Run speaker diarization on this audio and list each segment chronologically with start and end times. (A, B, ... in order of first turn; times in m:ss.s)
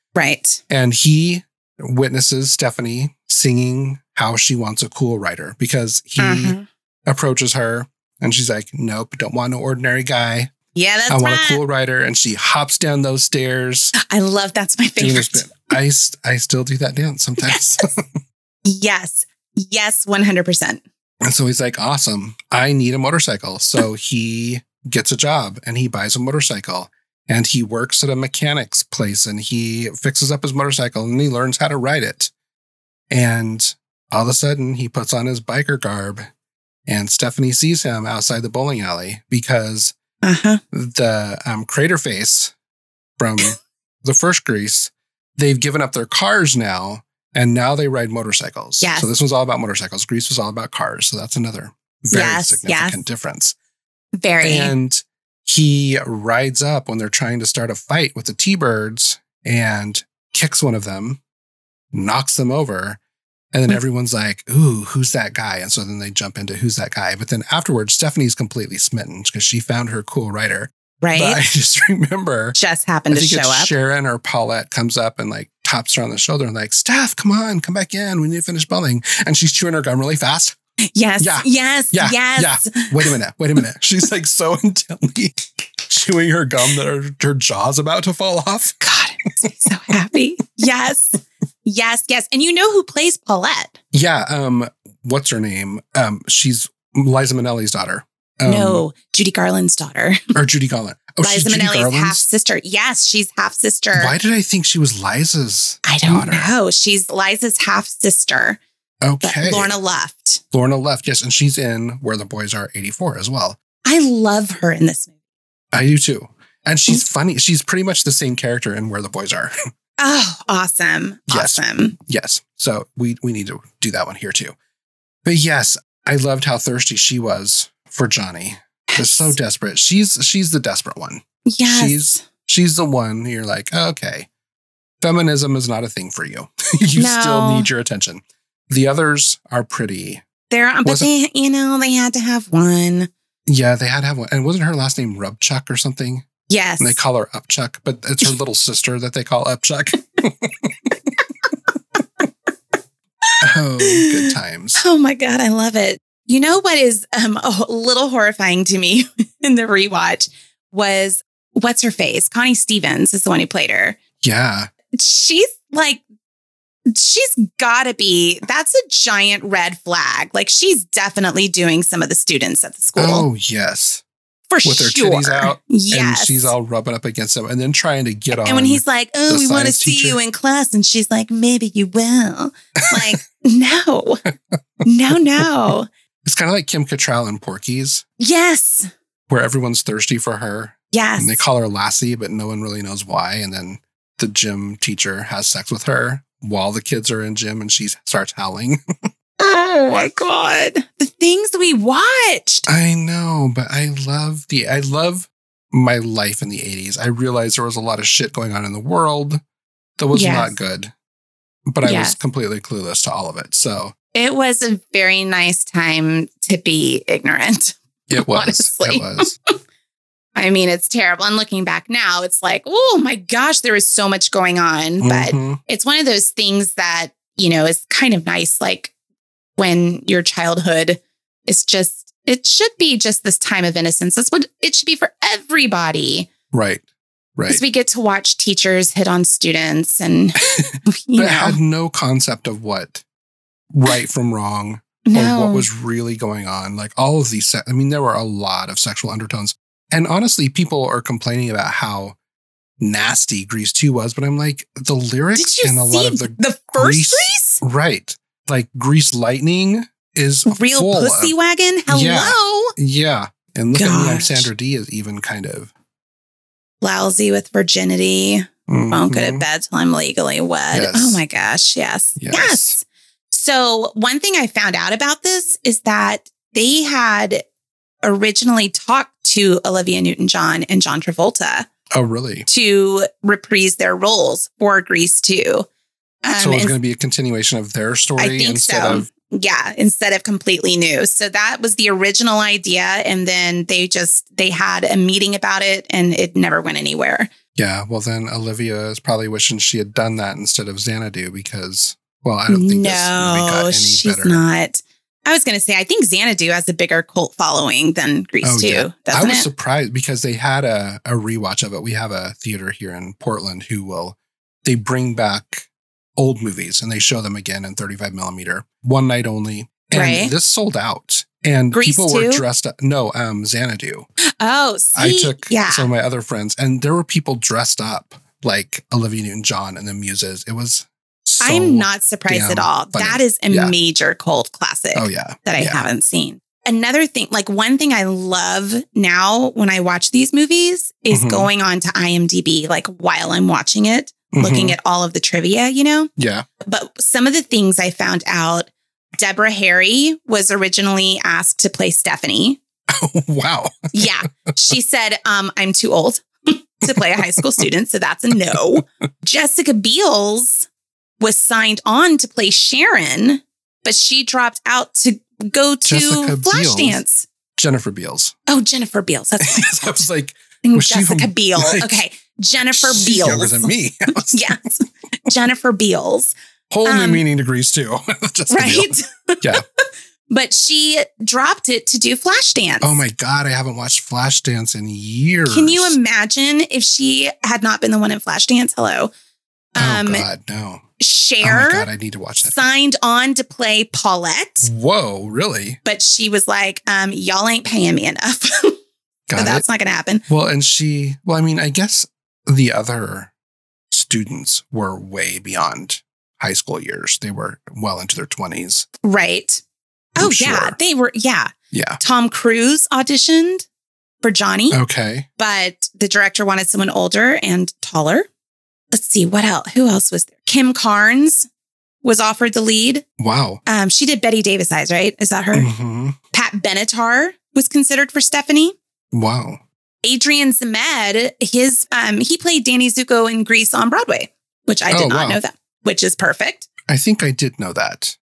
0:00.2-0:00.6 A
0:00.7-0:10.5 B
0:06.2-0:06.6 A
0:10.8-0:11.6 A
0:11.1-0:13.9 B
0:14.0-0:15.6 A
0:15.0-0:17.9 B
0:18.7-0:20.8 A
0:21.2-0:32.3 B
0:33.1-0:36.3 B
0:36.9-0:40.0 B
0:40.2-0:40.6 A
0:40.7-0:42.5 B
0:43.2-0:53.6 B
0:48.8-0:49.1 A
0:52.1-0:53.0 A
0:54.2-0:54.7 A
0:54.4-1:01.2 B
1:01.9-1:03.0 B
1:03.5-1:12.6 B
1:11.0-1:11.4 A
1:12.6-1:13.7 A
1:13.1-1:20.6 B
1:20.9-1:23.1 A
1:21.2-1:28.8 B
1:28.8-1:33.8 A
1:33.9-1:38.8 B
1:38.5-1:40.4 A
1:40.4-1:42.2 B
1:41.2-1:44.1 A
1:43.9-1:46.5 B
1:45.8-1:48.6 A
1:49.0-1:49.7 B
1:49.2-1:50.4 A
1:50.5-1:53.6 B
1:53.8-1:55.1 A
1:55.7-1:59.5 B
2:00.0-2:02.0 A
2:01.3-2:04.6 B
2:05.2-2:14.3 B
2:08.9-2:09.4 A
2:11.5-2:12.2 A
2:15.0-2:20.2 B
2:17.0-2:17.7 A
2:20.5-2:23.1 A
2:20.8-2:21.1 B
2:23.5-2:26.3 B
2:26.5-2:27.0 A
2:26.8-2:31.0 B
2:33.4-2:34.8 B
2:33.8-2:44.0 A
2:44.2-2:44.7 B
2:44.9-2:46.0 A
2:46.9-2:53.3 A
2:53.0-2:54.0 B
2:54.5-2:56.5 A
2:54.6-3:00.2 B
2:58.4-3:04.2 A
3:02.8-3:03.2 B
3:04.8-3:05.9 A
3:06.2-3:08.0 B
3:08.2-3:08.9 A
3:09.3-3:18.8 B
3:10.9-3:11.4 A
3:19.4-3:22.7 A
3:22.7-3:29.4 B
3:30.0-3:30.9 B
3:30.1-3:30.6 A
3:31.7-3:33.9 B
3:31.8-3:32.2 A
3:34.1-3:39.3 A
3:38.1-3:39.3 B
3:40.4-3:48.9 A
3:45.0-3:45.6 B
3:49.6-3:56.3 A
3:56.5-3:56.8 B
3:57.4-3:57.6 B
3:57.5-4:01.6 A
4:00.5-4:03.0 B
4:03.7-4:12.2 B
4:05.0-4:05.7 A
4:12.8-4:21.3 B
4:15.4-4:17.6 A
4:20.5-4:22.8 A
4:21.9-4:25.7 B
4:23.8-4:24.5 A
4:26.8-4:37.4 A
4:28.7-4:29.4 B
4:30.7-4:31.2 B
4:32.2-4:32.8 B
4:38.0-4:41.7 A
4:41.9-4:42.5 B
4:42.5-4:45.7 A
4:46.2-4:46.8 A
4:46.4-4:49.1 B
4:48.2-4:57.3 A
4:57.6-5:04.4 B
5:02.5-5:09.5 A
5:08.4-5:24.1 B
5:19.9-5:20.3 A
5:21.7-5:22.4 A
5:24.4-5:25.9 A
5:25.0-5:33.7 B
5:31.4-5:46.1 A
5:35.0-5:35.9 B
5:41.1-5:41.5 B
5:44.3-5:44.8 B
5:46.2-5:46.5 B
5:46.6-5:52.6 A
5:52.9-5:54.1 B
5:53.9-6:00.7 A
5:56.9-5:57.6 B
6:01.2-6:07.3 A
6:05.9-6:07.0 B
6:07.6-6:08.4 B
6:08.5-6:10.0 A
6:09.4-6:12.0 B
6:10.6-6:13.7 A
6:12.7-6:14.5 B
6:14.3-6:17.2 A
6:16.7-6:19.6 B
6:18.5-6:19.6 A
6:20.3-6:23.0 A
6:22.8-6:26.0 B
6:25.5-6:29.1 A
6:29.8-6:30.3 A
6:29.8-6:30.8 B
6:31.0-6:31.9 A
6:31.4-6:32.7 B
6:32.4-6:34.7 A
6:34.6-6:35.8 B
6:35.8-6:38.7 A
6:39.3-6:39.7 B
6:39.4-6:40.2 A
6:40.3-6:43.3 B
6:43.9-6:48.9 B
6:49.0-6:49.6 A
6:50.2-6:53.7 A
6:50.2-6:50.8 B
6:51.7-6:52.0 B
6:54.2-6:54.8 A
6:54.7-6:55.3 B
6:55.4-6:58.3 A
6:58.9-7:01.5 A
7:02.0-7:03.0 A
7:03.2-7:03.6 B
7:03.7-7:05.7 A
7:05.5-7:06.2 B
7:06.3-7:08.8 A
7:09.1-7:09.6 B
7:10.0-7:16.7 A
7:14.9-7:15.4 B
7:16.9-7:18.2 B